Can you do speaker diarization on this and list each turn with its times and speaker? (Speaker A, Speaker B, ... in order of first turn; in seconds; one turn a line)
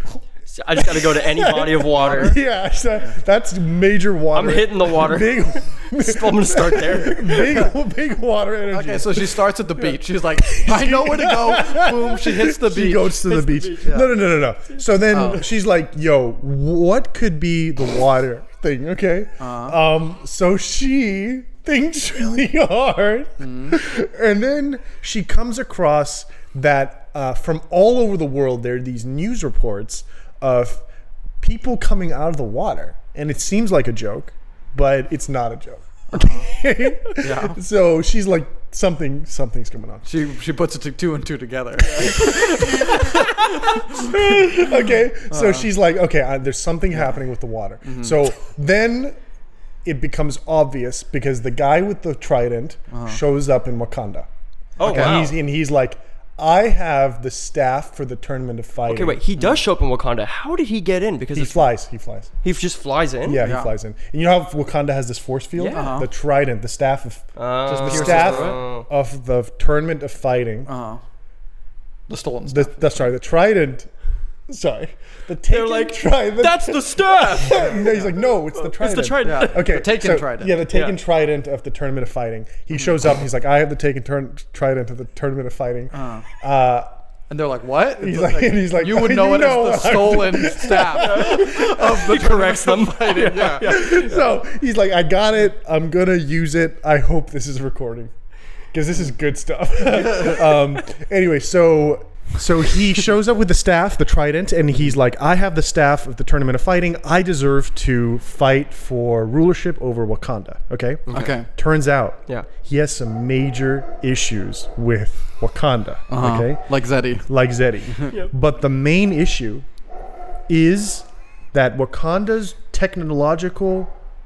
Speaker A: 0.5-2.4
Speaker B: 0.8-30.8
Speaker C: 2.0-2.3
Speaker A: 4.3-7.7
Speaker C: 8.7-13.2
Speaker A: 13.2-14.1
Speaker C: 13.8-14.1
Speaker C: 15.1-15.4
Speaker C: 19.4-19.8
Speaker C: 23.4-23.8
Speaker B: 31.4-40.1
Speaker C: 36.1-36.5
Speaker C: 37.2-37.6
Speaker C: 40.1-44.5
Speaker B: 41.9-49.2
Speaker C: 45.3-45.7
Speaker C: 47.9-48.2
Speaker B: 49.8-54.3
Speaker C: 52.9-53.2
Speaker A: 54.8-55.4
Speaker C: 54.8-55.2
Speaker B: 54.8-59.2
Speaker A: 58.9-61.7
Speaker B: 61.4-62.3
Speaker A: 62.4-63.4
Speaker B: 63.2-70.7
Speaker C: 63.4-63.7
Speaker A: 65.5-65.9
Speaker C: 65.7-66.1
Speaker A: 67.4-68.9
Speaker C: 67.7-68.6
Speaker C: 70.7-71.0
Speaker C: 72.1-73.1
Speaker B: 72.5-73.9
Speaker B: 74.5-86.9
Speaker A: 75.5-79.8
Speaker C: 79.2-80.7
Speaker A: 80.7-81.0
Speaker C: 85.9-86.2
Speaker C: 87.3-93.8
Speaker B: 88.0-92.0
Speaker A: 91.0-94.2
Speaker B: 93.3-98.1
Speaker B: 98.7-116.6
Speaker A: 111.1-111.3
Speaker C: 111.1-111.5
Speaker C: 116.1-117.2
Speaker B: 117.3-119.7
Speaker B: 120.5-123.9